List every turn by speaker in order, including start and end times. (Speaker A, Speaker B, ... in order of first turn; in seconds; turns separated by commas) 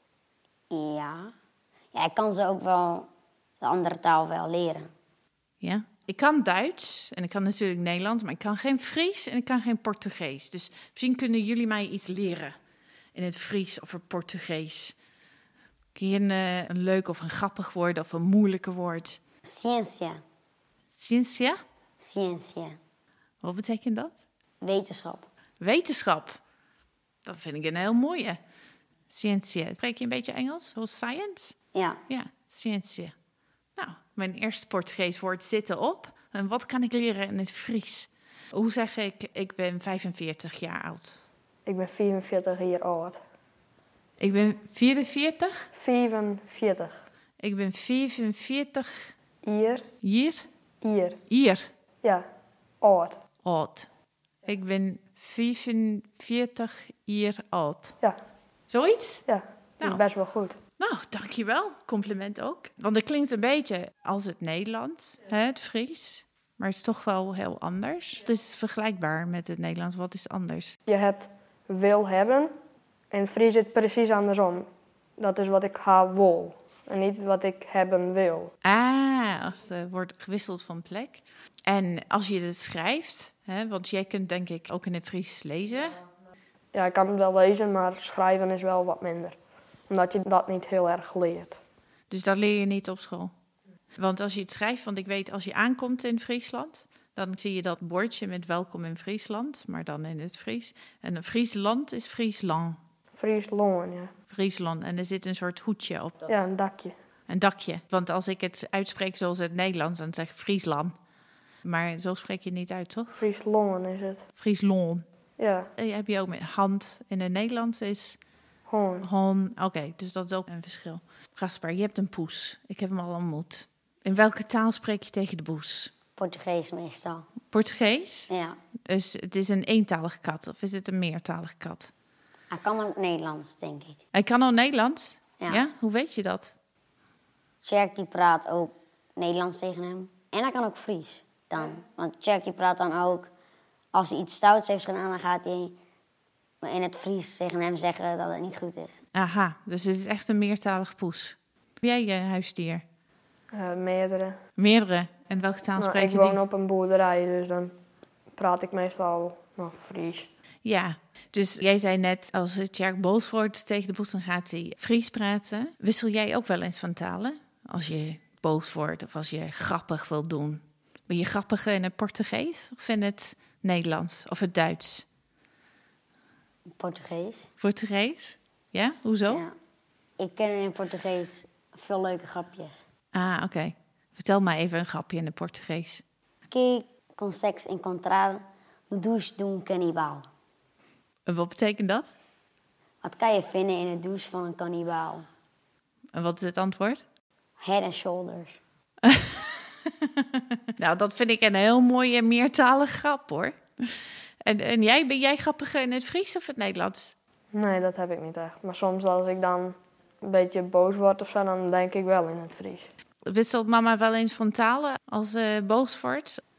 Speaker A: 0.7-1.3, Speaker A: 1.9-3.1, Speaker A: 3.6-4.9, Speaker B: 5.6-12.6, Speaker B: 13.1-15.0, Speaker B: 15.9-19.2, Speaker A: 19.4-20.2, Speaker B: 20.9-21.6, Speaker A: 22.0-22.8, Speaker B: 23.4-24.2, Speaker A: 24.6-25.3, Speaker B: 25.6-26.4, Speaker B: 27.2-28.4, Speaker B: 29.1-33.2, Speaker A: 31.7-32.0, Speaker B: 33.7-41.2, Speaker C: 41.6-43.2, Speaker B: 44.2-45.7, Speaker C: 45.7-47.1, Speaker B: 47.4-49.1, Speaker C: 49.4-49.9, Speaker B: 50.0-50.5, Speaker C: 50.8-51.2, Speaker B: 51.3-51.7, Speaker C: 52.0-52.3, Speaker C: 52.8-53.2, Speaker B: 53.4-53.9, Speaker B: 54.4-58.1, Speaker C: 58.0-58.6, Speaker B: 58.7-70.8, Speaker C: 59.2-60.6, Speaker C: 70.8-72.5, Speaker C: 73.1-78.5, Speaker B: 78.6-86.0, Speaker C: 86.7-91.6, Speaker B: 92.1-93.3, Speaker B: 93.9-102.8, Speaker C: 103.1-104.1, Speaker B: 104.3-106.3, Speaker C: 106.3-107.0, Speaker B: 107.3-111.0, Speaker B: 111.6-113.1, Speaker C: 113.1-114.3, Speaker B: 114.4-118.2, Speaker C: 115.4-115.7, Speaker C: 118.7-119.1, Speaker B: 119.0-125.9, Speaker A: 126.2-127.3, Speaker B: 127.5-128.3, Speaker A: 128.3-128.6, Speaker B: 128.8-131.9, Speaker A: 132.5-134.0, Speaker B: 134.1-136.6, Speaker A: 137.6-143.3, Speaker A: 143.9-145.8, Speaker A: 146.6-149.0, Speaker B: 149.1-152.8, Speaker C: 153.5-154.4, Speaker B: 154.6-156.4, Speaker C: 155.8-157.8, Speaker C: 158.3-160.3, Speaker B: 160.6-175.1, Speaker A: 176.8-177.5, Speaker B: 177.6-179.4, Speaker A: 179.3-179.6, Speaker A: 180.2-182.8, Speaker B: 183.1-186.0, Speaker A: 186.5-190.3, Speaker B: 191.2-192.1, Speaker A: 193.0-195.3, Speaker B: 196.1-197.0, Speaker A: 197.6-198.6, Speaker B: 199.1-199.4, Speaker B: 200.8-207.1, Speaker C: 207.5-212.9, Speaker B: 213.2-216.4